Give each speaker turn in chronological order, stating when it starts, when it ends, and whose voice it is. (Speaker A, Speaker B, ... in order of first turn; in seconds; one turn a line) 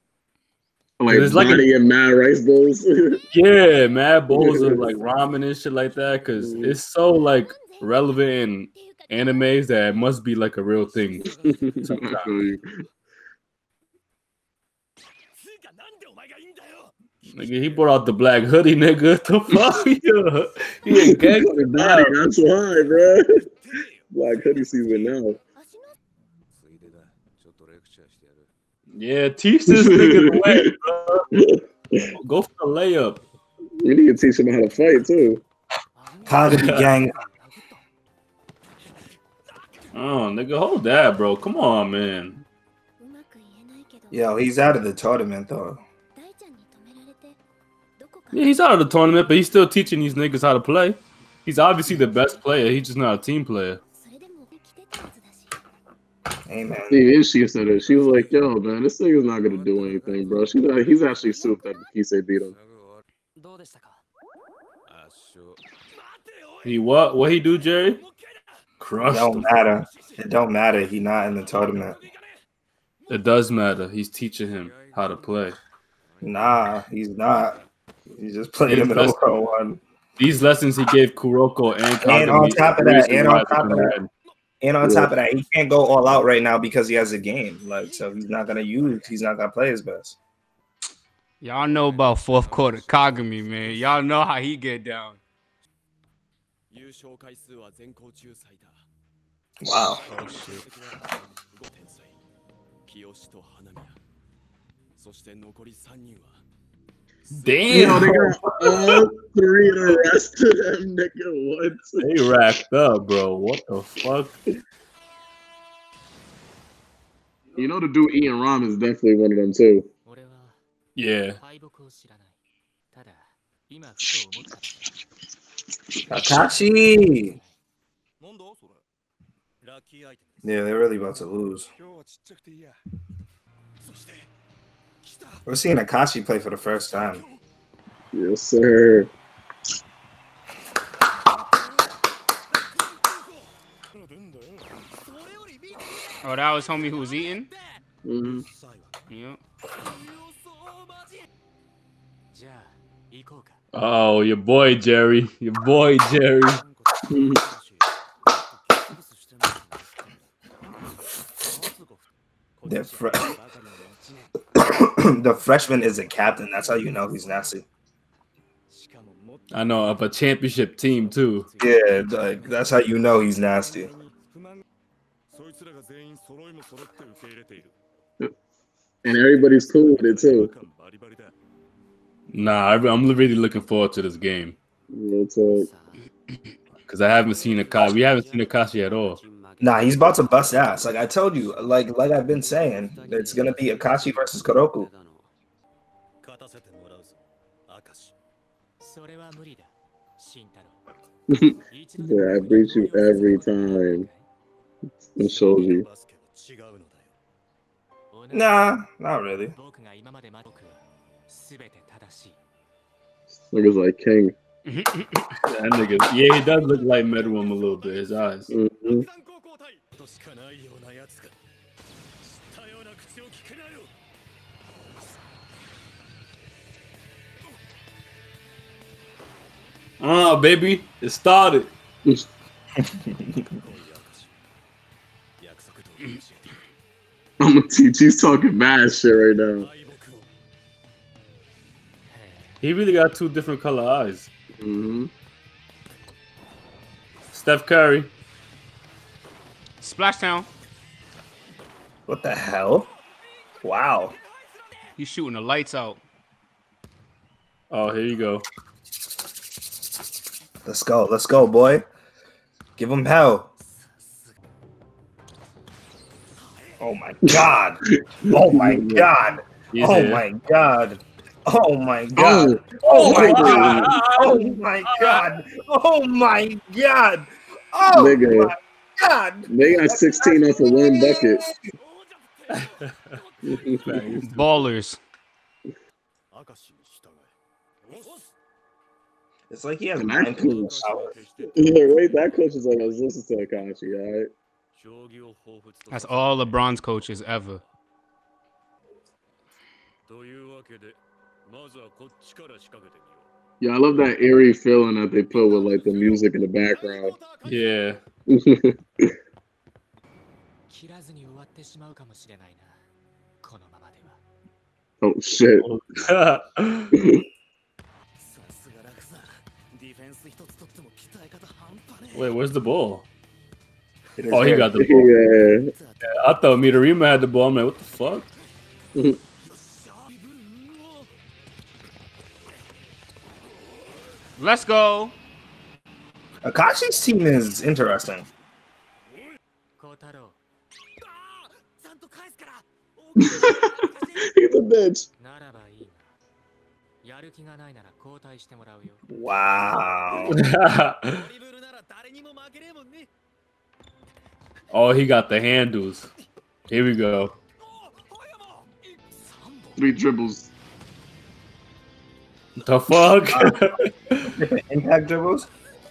Speaker A: 1.0-3.2
Speaker B: 1.1-1.7
Speaker B: 3.3-12.3
Speaker A: 4.3-4.9
Speaker A: 6.4-6.8
Speaker C: 7.1-8.1
Speaker C: 8.7-9.7
Speaker C: 11.7-12.1
Speaker A: 11.8-12.7
Speaker B: 17.3-22.1
Speaker A: 20.9-23.4
Speaker A: 24.1-25.4
Speaker C: 25.5-25.9
Speaker B: 28.9-31.3
Speaker A: 29.7-30.7
Speaker A: 31.4-32.1
Speaker B: 32.1-33.2
Speaker A: 33.8-35.4
Speaker D: 35.9-37.8
Speaker E: 36.2-37.1
Speaker B: 36.5-36.9
Speaker B: 39.9-42.4
Speaker C: 43.0-44.7
Speaker E: 44.1-45.8
Speaker C: 46.1-47.4
Speaker C: 48.0-48.7
Speaker B: 48.3-53.8
Speaker C: 53.9-55.6
Speaker E: 56.5-57.1
Speaker A: 56.9-62.5
Speaker B: 66.6-68.0
Speaker B: 68.8-69.6
Speaker E: 69.1-72.0
Speaker B: 73.1-75.6
Speaker E: 76.2-77.6
Speaker E: 78.1-79.8
Speaker B: 78.7-79.2
Speaker B: 80.2-84.1
Speaker E: 82.0-84.0
Speaker E: 84.6-90.2
Speaker A: 84.8-85.1
Speaker F: 91.4-95.2
Speaker E: 99.6-100.0
Speaker D: 100.1-100.7
Speaker B: 107.4-109.0
Speaker A: 107.7-112.0
Speaker E: 107.7-108.1
Speaker B: 112.0-114.4
Speaker A: 117.5-119.9
Speaker D: 120.0-120.6
Speaker B: 121.0-121.4
Speaker D: 121.3-122.4
Speaker D: 122.9-124.8
Speaker E: 126.1-127.3
Speaker D: 126.1-127.5
Speaker E: 130.4-131.7
Speaker E: 135.4-137.2
Speaker A: 138.1-139.1
Speaker F: 146.2-147.5
Speaker A: 148.0-148.4
Speaker F: 149.1-149.4
Speaker D: 152.3-153.6
Speaker B: 153.7-156.6
Speaker A: 157.1-157.4
Speaker E: 162.6-163.4
Speaker E: 164.6-167.6
Speaker B: 169.5-171.5
Speaker E: 171.6-173.9
Speaker A: 179.0-180.5
Speaker B: 182.3-184.6
Speaker A: 184.9-185.7
Speaker B: 186.9-189.2
Speaker E: 189.6-194.9
Speaker D: 198.8-200.8
Speaker A: 201.3-204.1
Speaker D: 201.7-204.3
Speaker A: 205.2-205.8
Speaker D: 208.1-208.7
Speaker E: 208.3-209.5
Speaker D: 209.4-212.4
Speaker A: 213.5-214.3
Speaker F: 214.6-215.3
Speaker B: 215.4-218.5
Speaker A: 218.5-219.1
Speaker C: 219.9-220.8
Speaker B: 230.0-231.7
Speaker E: 232.8-233.4
Speaker A: 237.4-239.7
Speaker D: 242.1-242.6
Speaker B: 242.6-244.3
Speaker A: 244.6-245.1
Speaker B: 247.3-248.1
Speaker F: 249.8-250.5
Speaker E: 252.1-252.9
Speaker E: 253.6-254.1
Speaker F: 254.9-256.0
Speaker B: 257.7-258.4
Speaker E: 260.6-261.8
Speaker E: 262.8-263.5
Speaker E: 266.8-281.7
Speaker A: 267.9-269.1
Speaker B: 269.7-270.2
Speaker A: 272.1-273.9
Speaker B: 272.8-275.2
Speaker A: 277.9-278.5
Speaker A: 279.5-281.4
Speaker B: 282.5-283.1
Speaker A: 283.5-284.0
Speaker B: 283.8-284.5
Speaker F: 284.2-285.0
Speaker E: 289.5-291.1
Speaker A: 290.0-290.8
Speaker A: 291.5-294.3
Speaker F: 295.9-297.6
Speaker A: 303.6-307.1
Speaker B: 307.4-308.0
Speaker A: 308.3-308.7
Speaker D: 310.7-312.8
Speaker D: 313.4-314.2
Speaker A: 315.0-315.6
Speaker B: 315.6-316.9
Speaker A: 316.9-317.2
Speaker C: 320.0-322.1
Speaker B: 322.1-323.1
Speaker E: 324.2-324.8
Speaker B: 324.3-325.1
Speaker A: 324.8-325.7
Speaker B: 326.0-328.3
Speaker F: 334.4-335.1
Speaker E: 336.4-338.3
Speaker D: 339.8-340.4
Speaker A: 343.2-343.6
Speaker A: 344.3-345.1
Speaker D: 345.2-346.1
Speaker D: 347.0-349.0
Speaker E: 349.1-350.4
Speaker B: 350.3-351.3
Speaker C: 352.4-353.0
Speaker B: 354.7-356.1
Speaker B: 356.7-357.3
Speaker A: 359.8-360.5
Speaker B: 362.6-364.4
Speaker E: 363.3-363.6
Speaker E: 364.4-365.5